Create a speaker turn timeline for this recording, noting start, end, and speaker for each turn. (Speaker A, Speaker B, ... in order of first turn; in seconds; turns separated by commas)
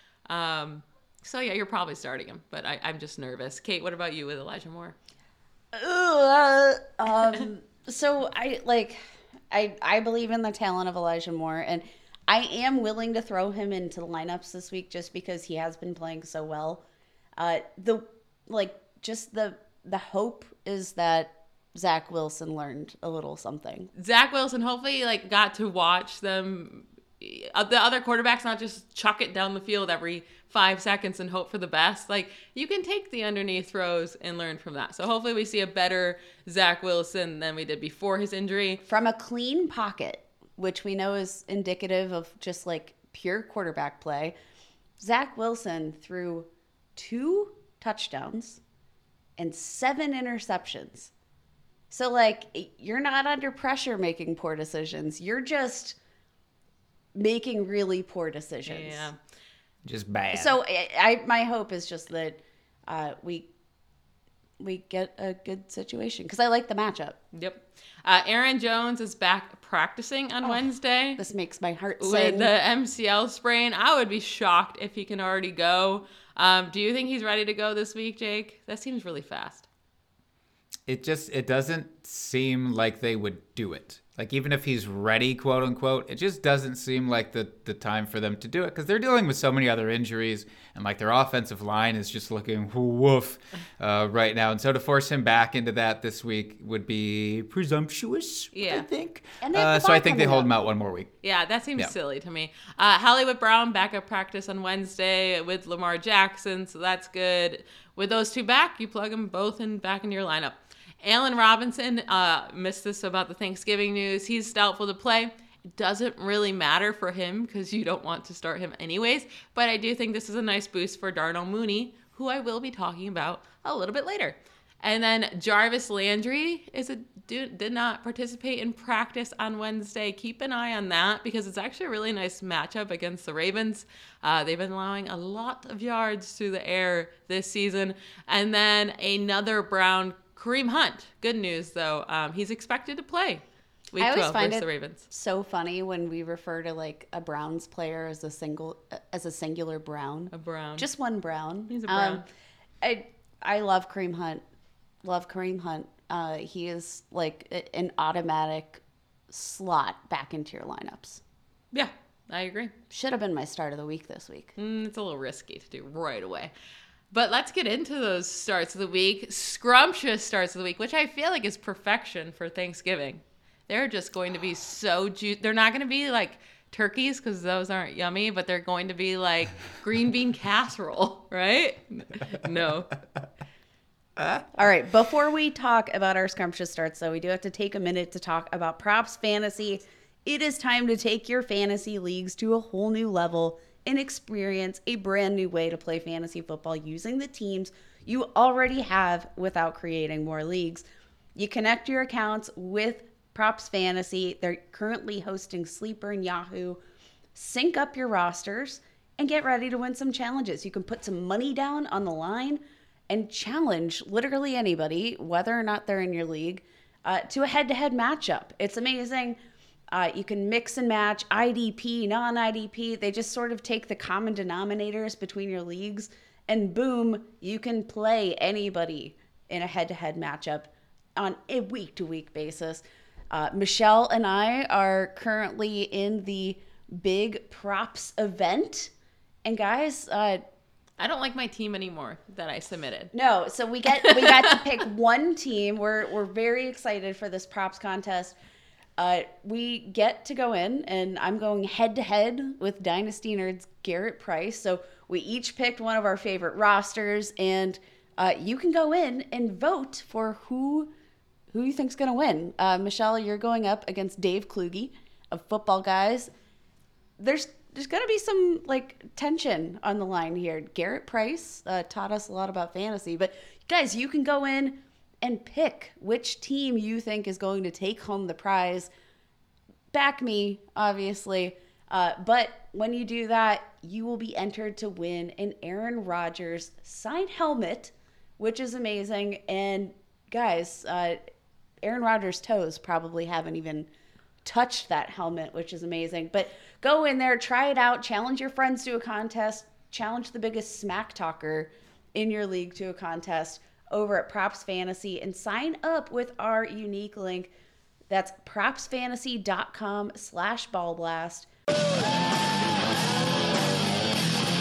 Speaker A: 0.3-5.0, Speaker B: 5.7-9.0, Speaker B: 9.5-16.8, Speaker B: 17.4-23.9, Speaker A: 23.9-38.8, Speaker B: 38.8-44.4, Speaker B: 45.0-48.6, Speaker B: 49.4-51.1, Speaker B: 51.9-56.0, Speaker B: 57.1-59.1, Speaker A: 58.6-59.1, Speaker C: 59.8-60.5, Speaker B: 60.3-63.5, Speaker B: 64.6-67.2, Speaker A: 67.3-71.2, Speaker B: 70.4-72.5, Speaker A: 72.0-79.7, Speaker C: 80.9-101.1, Speaker A: 98.5-98.9, Speaker B: 99.4-100.5, Speaker A: 101.2-145.0, Speaker B: 144.0-152.2, Speaker A: 150.3-150.9, Speaker A: 151.7-152.2, Speaker B: 152.8-154.4, Speaker B: 155.0-161.2, Speaker A: 161.7-162.7, Speaker B: 162.9-164.5, Speaker A: 164.6-166.5, Speaker A: 167.1-182.9, Speaker C: 184.2-184.4, Speaker B: 184.6-206.8, Speaker B: 207.3-219.4, Speaker B: 219.9-238.9, Speaker B: 239.4-240.4, Speaker A: 241.0-243.1, Speaker B: 243.1-248.3, Speaker A: 244.0-244.6, Speaker B: 249.0-260.9, Speaker B: 261.5-266.3, Speaker B: 267.2-278.9, Speaker B: 279.9-291.2, Speaker B: 291.8-293.9, Speaker B: 294.4-307.5, Speaker B: 308.1-311.5